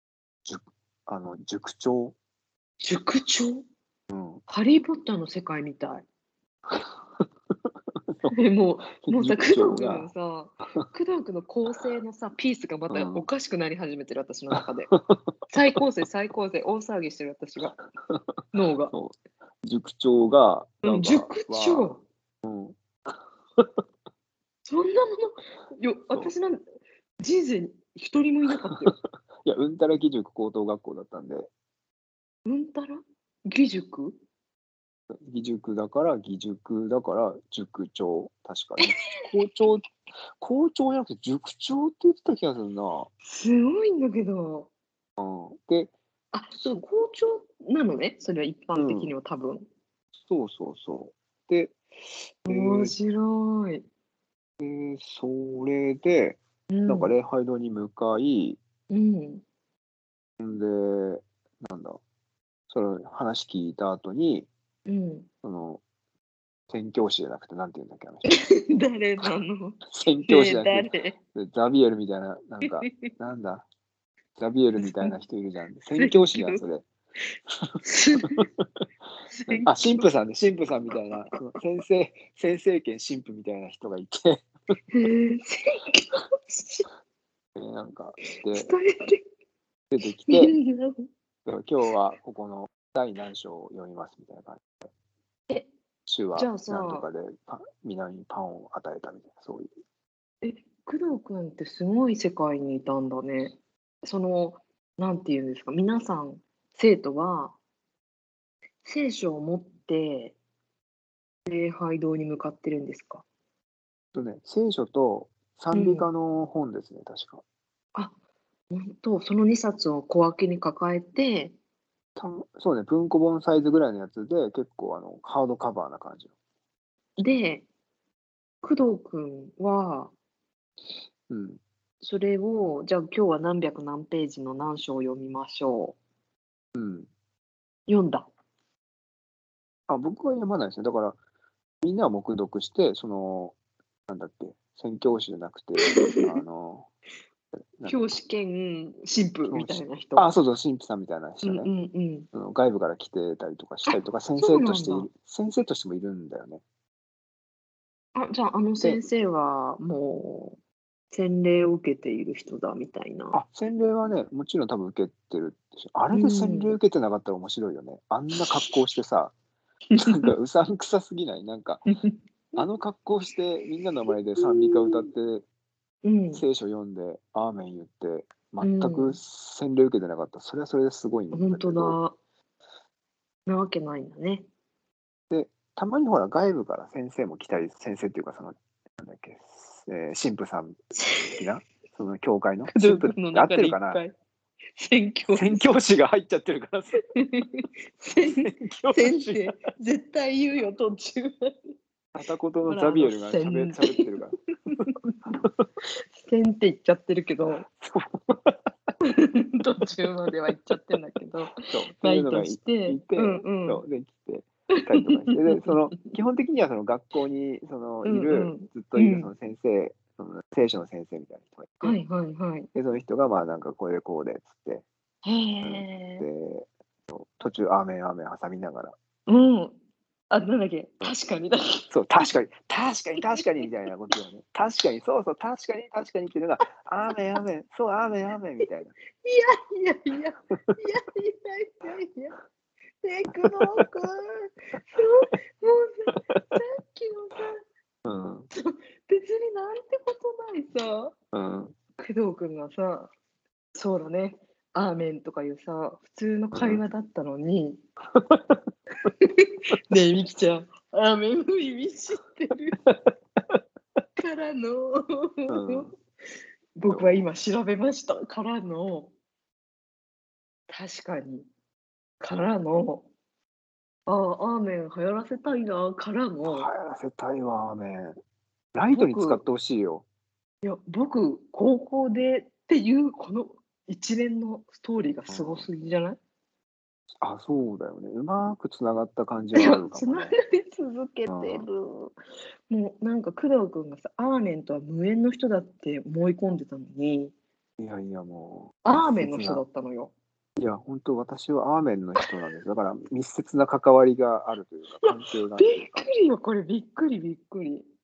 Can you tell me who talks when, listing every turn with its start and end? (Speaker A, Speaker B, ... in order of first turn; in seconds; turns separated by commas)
Speaker A: 0.4-2.1, Speaker B: 2.8-3.6, Speaker A: 4.1-4.4, Speaker B: 4.5-6.0, Speaker A: 6.7-7.2, Speaker B: 8.3-14.9, Speaker A: 9.0-10.1, Speaker A: 12.9-13.2, Speaker A: 14.6-15.3, Speaker B: 15.5-17.8, Speaker B: 18.5-18.9, Speaker A: 18.9-23.8, Speaker B: 20.8-22.0, Speaker B: 24.6-26.6, Speaker B: 27.2-29.0, Speaker A: 28.6-31.5, Speaker B: 32.4-34.2, Speaker A: 35.1-39.9, Speaker B: 38.8-39.3, Speaker A: 40.4-43.1, Speaker B: 43.2-44.7, Speaker A: 45.2-45.9, Speaker B: 46.3-49.7, Speaker A: 48.8-49.1, Speaker A: 50.2-51.8, Speaker A: 52.4-53.0, Speaker B: 52.5-53.8, Speaker A: 54.6-58.6, Speaker B: 56.7-57.2, Speaker B: 58.9-59.4, Speaker A: 60.4-62.0, Speaker A: 62.7-64.5, Speaker B: 64.9-65.3, Speaker A: 65.4-65.8, Speaker A: 66.7-68.2, Speaker B: 68.2-71.2, Speaker A: 69.9-73.6, Speaker B: 72.7-73.1, Speaker A: 74.4-76.8, Speaker B: 74.8-75.1, Speaker B: 75.9-76.6, Speaker A: 77.5-77.8, Speaker B: 77.8-78.5, Speaker A: 78.3-78.7, Speaker B: 79.3-80.1, Speaker A: 79.5-84.4, Speaker B: 84.9-86.9, Speaker A: 87.6-88.7, Speaker B: 88.3-89.2, Speaker A: 89.9-90.5, Speaker B: 90.3-91.1, Speaker A: 91.5-94.9, Speaker A: 96.1-99.7, Speaker B: 96.3-97.1, Speaker B: 100.4-107.6, Speaker B: 108.8-110.4, Speaker B: 111.5-113.2, Speaker A: 114.1-117.4, Speaker B: 115.7-116.1, Speaker B: 118.7-121.5, Speaker A: 122.2-126.3, Speaker B: 127.2-127.7, Speaker B: 128.6-130.1, Speaker A: 131.3-131.6, Speaker B: 132.0-136.0, Speaker A: 136.8-137.1, Speaker B: 137.9-138.3, Speaker A: 139.9-141.2, Speaker A: 141.8-143.6, Speaker A: 144.1-146.9, Speaker B: 145.8-146.4, Speaker B: 147.8-150.3, Speaker A: 149.5-151.7, Speaker B: 151.4-152.3, Speaker A: 152.3-156.6, Speaker B: 153.9-155.1, Speaker B: 158.1-160.6, Speaker B: 161.1-163.4, Speaker A: 163.3-169.3, Speaker B: 166.1-166.8, Speaker B: 169.9-170.3, Speaker A: 169.9-171.8, Speaker B: 172.0-172.6, Speaker A: 172.6-175.4, Speaker B: 174.4-175.1, Speaker B: 176.0-176.4, Speaker A: 176.3-181.9, Speaker B: 178.6-179.2, Speaker B: 181.3-182.1, Speaker B: 183.4-184.4, Speaker A: 185.3-190.8, Speaker B: 190.9-191.4, Speaker A: 191.3-194.0, Speaker B: 192.7-194.1, Speaker B: 194.8-195.7, Speaker A: 195.3-197.0, Speaker B: 197.1-201.8, Speaker A: 198.2-199.6, Speaker A: 202.1-204.8, Speaker B: 202.7-204.1, Speaker B: 204.7-205.3, Speaker A: 205.3-205.6, Speaker B: 206.2-207.6, Speaker A: 207.6-208.7, Speaker B: 209.0-213.8, Speaker A: 211.6-222.0, Speaker B: 214.8-216.1, Speaker B: 218.0-219.3, Speaker B: 221.8-222.7, Speaker A: 222.8-224.8, Speaker B: 225.2-226.3, Speaker A: 225.6-228.9, Speaker B: 229.3-229.8, Speaker B: 230.3-231.9, Speaker A: 231.9-238.9, Speaker B: 239.2-242.3, Speaker B: 243.0-247.6, Speaker A: 243.5-243.8, Speaker A: 246.2-246.5, Speaker A: 248.0-248.5, Speaker B: 248.6-251.2, Speaker A: 251.3-251.7, Speaker B: 252.0-253.1, Speaker B: 253.7-257.8, Speaker A: 256.6-256.8, Speaker A: 258.1-258.6, Speaker B: 259.1-262.8, Speaker B: 264.2-265.9, Speaker A: 265.5-265.9, Speaker B: 266.7-269.1, Speaker A: 266.9-267.2, Speaker B: 270.7-271.5, Speaker B: 272.2-273.1, Speaker B: 274.1-276.7, Speaker A: 276.4-278.1, Speaker A: 278.7-280.1, Speaker B: 278.9-279.4, Speaker B: 280.6-286.2, Speaker A: 285.3-285.7, Speaker A: 287.2-290.3, Speaker B: 289.5-292.1, Speaker A: 291.3-291.7, Speaker B: 292.7-297.3, Speaker A: 297.8-299.6, Speaker B: 298.8-300.1, Speaker A: 300.6-306.0, Speaker B: 305.0-307.9